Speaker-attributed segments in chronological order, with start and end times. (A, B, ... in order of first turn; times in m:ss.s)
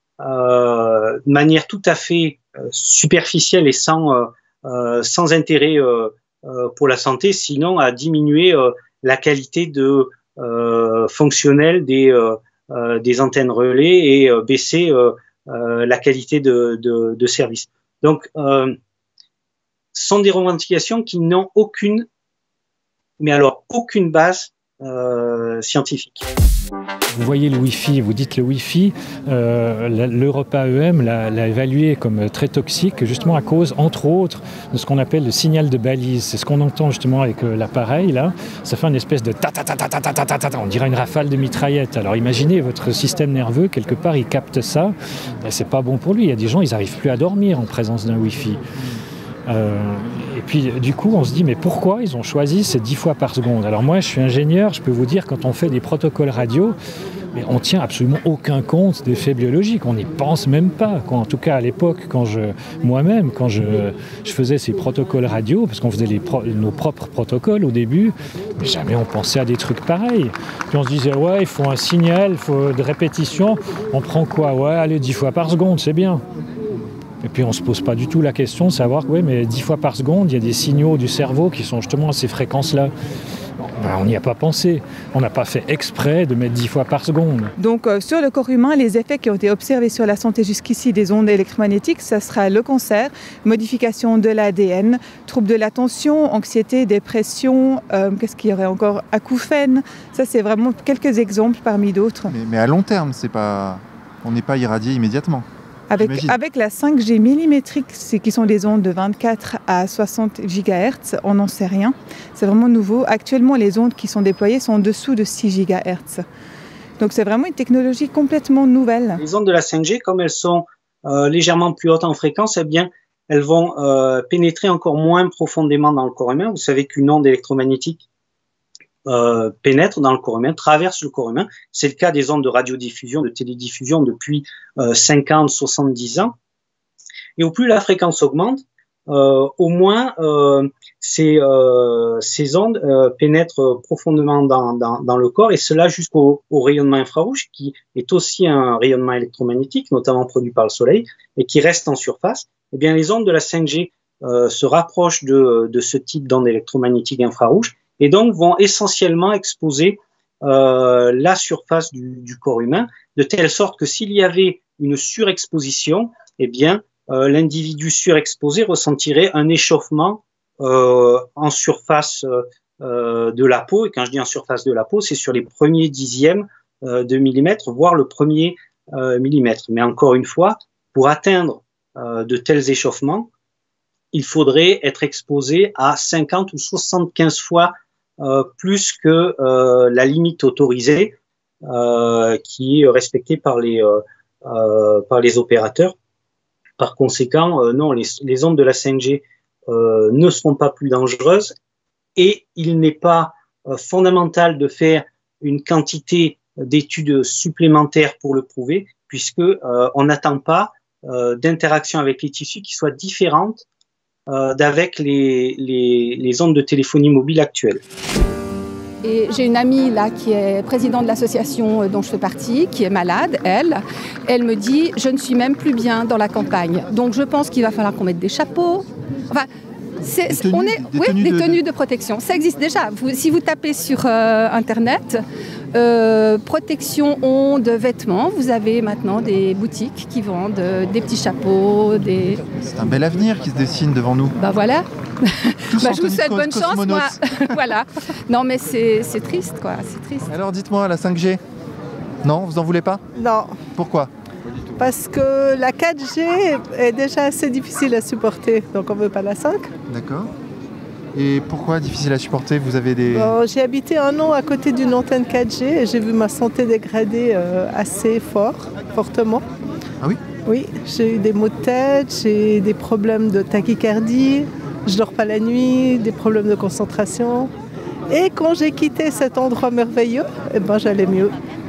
0:00.2-0:18.8 A
0:19.9-0:22.0 A
0:23.2-0:26.3 A
0:27.1-0:48.6 B
0:49.5-0:56.7 B
0:57.3-1:16.2 B
1:17.2-1:22.9 B
1:23.6-1:27.5 B
1:27.6-1:42.3 C
1:42.3-1:46.4 D
1:45.9-1:56.2 C
1:57.0-1:59.2 C
1:59.2-2:08.0 A
2:09.1-2:16.3 A
2:17.4-3:03.3 A
3:04.1-3:15.9 A
3:16.8-3:21.5 A
3:22.2-3:33.6 A
3:34.3-3:37.8 A
3:39.0-3:49.5 E
3:50.0-3:55.2 E
3:50.3-3:51.6 D
3:55.7-4:02.4 E
4:02.6-4:04.4 D
4:04.4-4:10.3 E
4:05.7-4:07.6 D
4:10.3-4:11.4 D
4:12.2-4:13.0 D
4:13.2-4:13.6 F
4:13.7-4:14.1 D
4:14.8-4:19.7 F
4:19.9-4:20.3 D
4:21.1-4:23.4 D
4:23.1-4:29.4 F
4:30.4-4:37.5 F
4:38.1-4:41.4 F